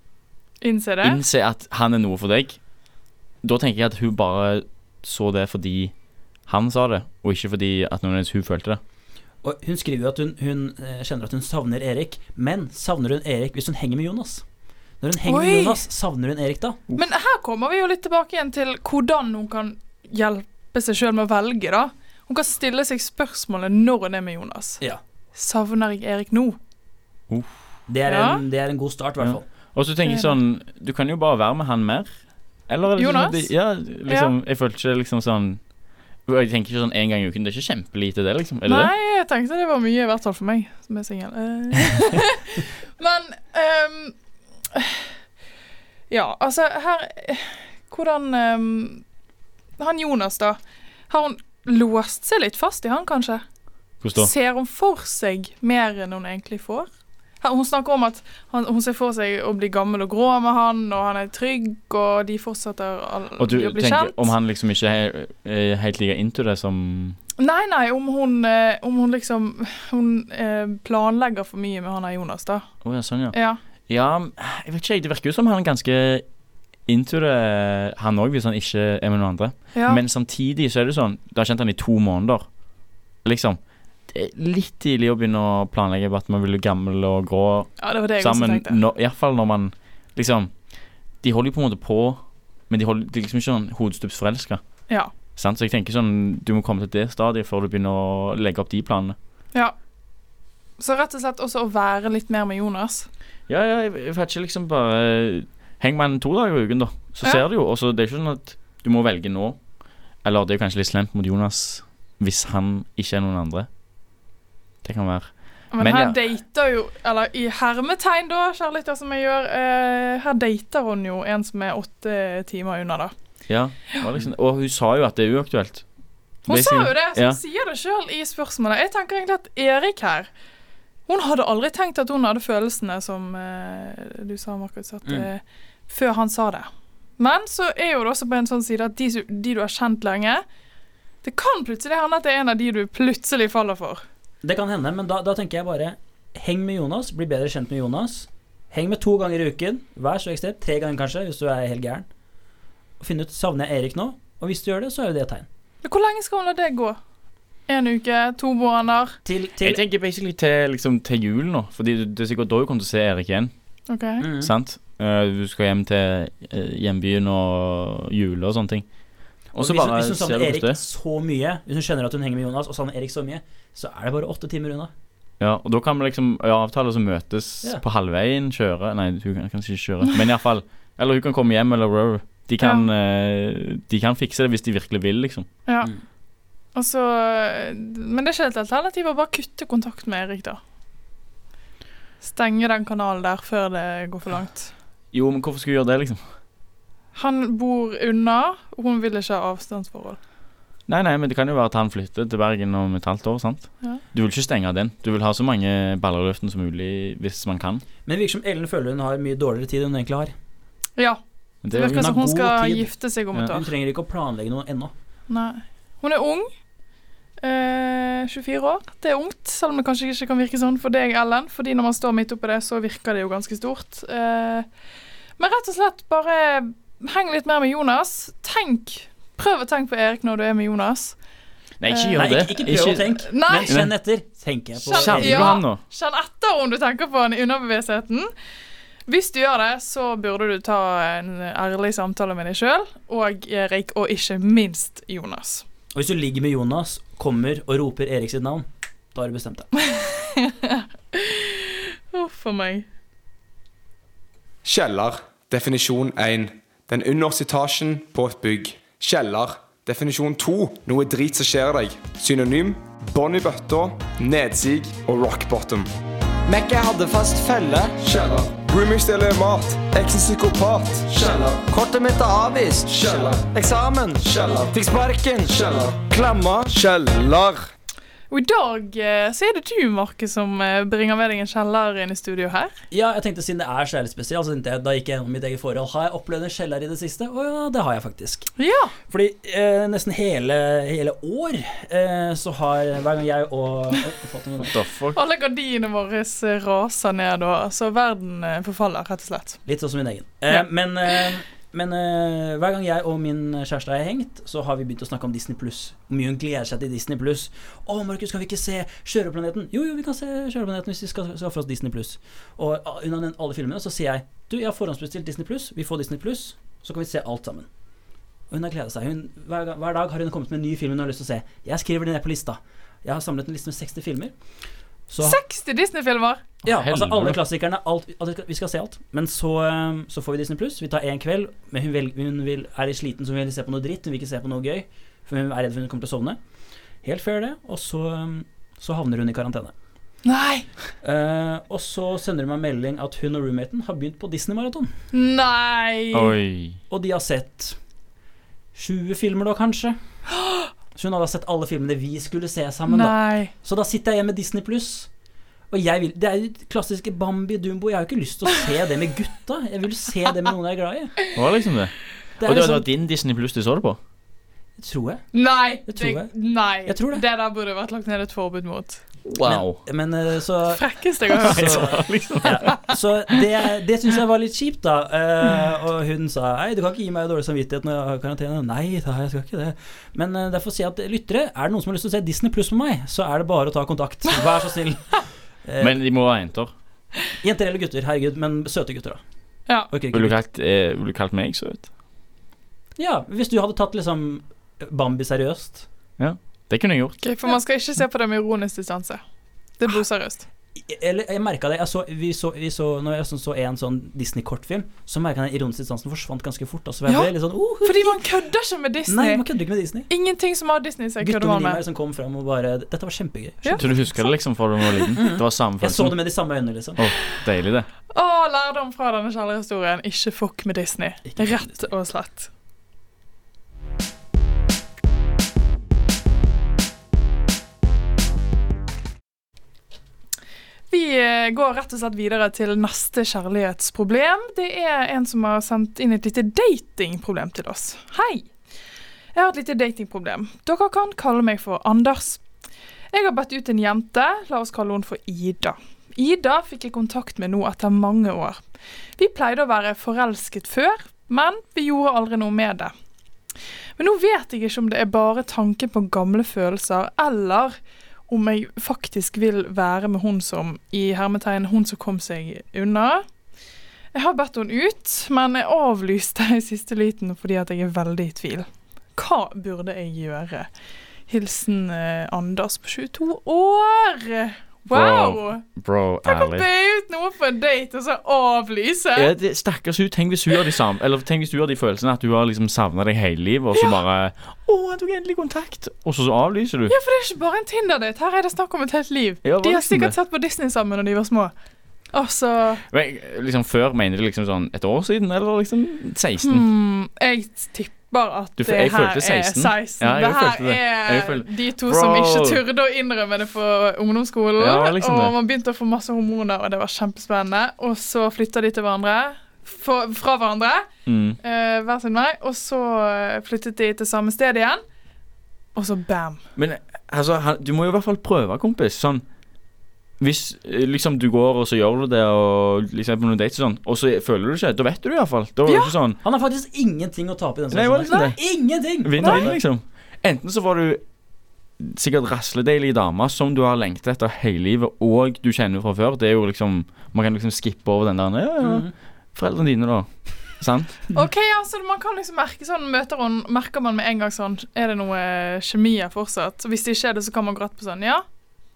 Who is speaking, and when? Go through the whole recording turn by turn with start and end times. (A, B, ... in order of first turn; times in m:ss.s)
0:00.6-0:01.2 A
0:01.0-0:02.6 B
0:03.4-0:05.9 B
0:06.5-0:08.8 B
0:09.4-0:14.4 C
0:15.0-0:16.8 C
0:15.2-0:15.8 A
0:17.0-0:24.8 A
0:25.3-0:26.6 A
0:27.9-0:29.4 C
0:28.0-0:28.4 A
0:29.2-0:32.1 B
0:30.0-0:30.4 A
0:32.7-0:35.6 B
0:33.0-0:33.5 A
0:36.2-0:38.9 B
0:38.7-0:44.2 A
0:44.7-0:45.1 A
0:46.1-0:49.0 A
0:49.8-0:50.6 A
0:51.1-0:53.4 A
0:54.0-0:54.3 B
0:54.1-0:56.9 A
0:57.4-1:04.3 A
1:03.4-1:07.2 B
1:07.4-1:12.7 A
1:12.8-1:13.4 B
1:13.3-1:13.6 A
1:13.9-1:16.2 B
1:16.9-1:22.4 B
1:19.7-1:20.0 A
1:23.2-1:30.5 B
1:27.8-1:28.8 A
1:31.2-1:32.2 B
1:32.7-1:34.6 B
1:35.4-1:39.2 B
1:40.8-1:43.1 A
1:43.5-1:49.6 B
1:50.2-1:53.7 B
1:54.8-1:56.2 B
1:55.7-2:03.1 A
2:03.5-2:05.8 B
2:06.5-2:07.4 B
2:06.5-2:10.3 A
2:11.1-2:20.4 A
2:21.2-2:24.0 A
2:24.4-2:32.1 C
2:33.0-2:35.5 C
2:35.8-2:37.0 A
2:37.7-2:39.2 A
2:39.2-2:39.8 C
2:39.6-2:43.5 B
2:43.9-2:44.2 A
2:44.2-2:44.5 C
2:44.4-2:48.8 B
2:49.5-2:50.8 B
2:49.6-2:54.9 C
2:55.4-3:05.5 B
3:02.6-3:02.9 A
3:05.6-3:05.9 A
3:06.7-3:10.6 A
3:12.2-3:14.7 A
3:15.1-3:16.2 B
3:17.1-3:20.2 A
3:20.9-3:27.8 B
3:28.0-3:30.3 C
3:31.6-3:32.1 B
3:31.7-3:33.7 A
3:31.8-3:32.9 C
3:33.4-3:34.9 C
3:35.3-3:36.5 A
3:37.4-3:44.6 A
3:45.4-3:51.2 A
3:51.8-3:53.1 B
3:51.9-3:53.8 A
3:52.1-3:55.6 C
3:53.7-3:53.9 B
3:54.8-3:58.3 A
3:54.9-3:55.8 B
3:59.1-4:05.6 A
4:05.9-4:09.7 C
4:09.8-4:12.8 A
4:14.6-4:25.9 D
4:26.5-4:27.9 E
4:27.9-4:31.7 D
4:31.7-4:32.9 E
4:32.9-4:33.5 D
4:33.4-4:36.7 E
4:34.2-4:34.9 D
4:35.4-4:36.1 D
4:36.6-4:37.5 D
4:38.3-4:42.7 A
4:42.9-4:48.5 C
4:48.6-4:48.9 A
4:49.1-4:54.8 C
4:54.6-4:55.2 B
4:55.1-4:59.6 A
4:59.6-5:17.7 C
5:18.5-5:24.3 C
5:25.1-5:25.4 C
5:25.2-5:26.4 A
5:26.6-5:36.4 C
5:26.6-5:27.4 B
5:37.0-5:39.7 C
5:40.2-5:40.7 A
5:41.0-5:44.9 C
5:45.1-5:46.3 A
5:46.1-5:46.8 B
5:46.9-5:47.8 C
5:48.7-5:50.0 C
5:50.4-5:50.7 A
5:50.9-5:55.1 C
5:52.9-5:53.5 A
5:55.7-6:01.1 C
6:01.3-6:04.0 B
6:02.4-6:02.8 C
6:04.8-6:05.2 C
6:05.3-6:09.0 A
6:05.8-6:06.3 C
6:06.8-6:07.2 C
6:09.2-6:09.8 B
6:09.4-6:26.0 C
6:10.7-6:12.0 A
6:11.4-6:12.8 B
6:12.6-6:12.9 A
6:25.8-6:26.7 B
6:27.4-6:29.2 C
6:29.9-6:30.4 C
6:30.1-6:31.9 B
6:33.0-6:35.8 C
6:36.2-6:37.2 B
6:37.2-6:39.2 A
6:39.8-6:40.4 A
6:40.8-6:48.2 C
6:47.1-6:49.4 A
6:49.0-6:50.1 C
6:50.1-6:51.8 A
6:51.2-6:54.0 C
6:53.6-6:54.3 A
6:53.8-6:56.2 B
6:54.9-6:55.1 A
6:55.1-6:57.0 C
6:57.0-6:57.9 B
6:58.1-7:02.5 A
7:10.9-7:18.5 A
7:19.3-7:22.4 A
7:23.1-7:28.6 A
7:29.2-7:32.9 A
7:34.0-7:37.8 A
7:38.3-7:43.2 A
7:44.1-7:50.7 A
7:51.3-7:55.6 A
7:54.9-7:56.6 B
7:56.2-7:59.3 A
7:59.2-8:06.9 B
8:06.9-8:11.5 A
8:09.4-8:10.1 B
8:12.1-8:12.8 A
8:12.9-8:16.6 B
8:16.4-8:30.9 A
8:18.6-8:22.6 B
8:24.6-8:25.3 B
8:31.0-8:31.4 B
8:31.4-8:34.8 A
8:35.7-8:36.4 A
8:36.6-8:39.2 B
8:40.2-8:46.2 B
8:45.6-8:45.9 A
8:46.2-8:49.6 C
8:47.7-8:48.4 B
8:49.0-8:51.0 B
8:49.2-8:49.5 A
8:51.8-9:01.1 B
8:58.6-8:58.9 C
9:01.1-9:08.2 A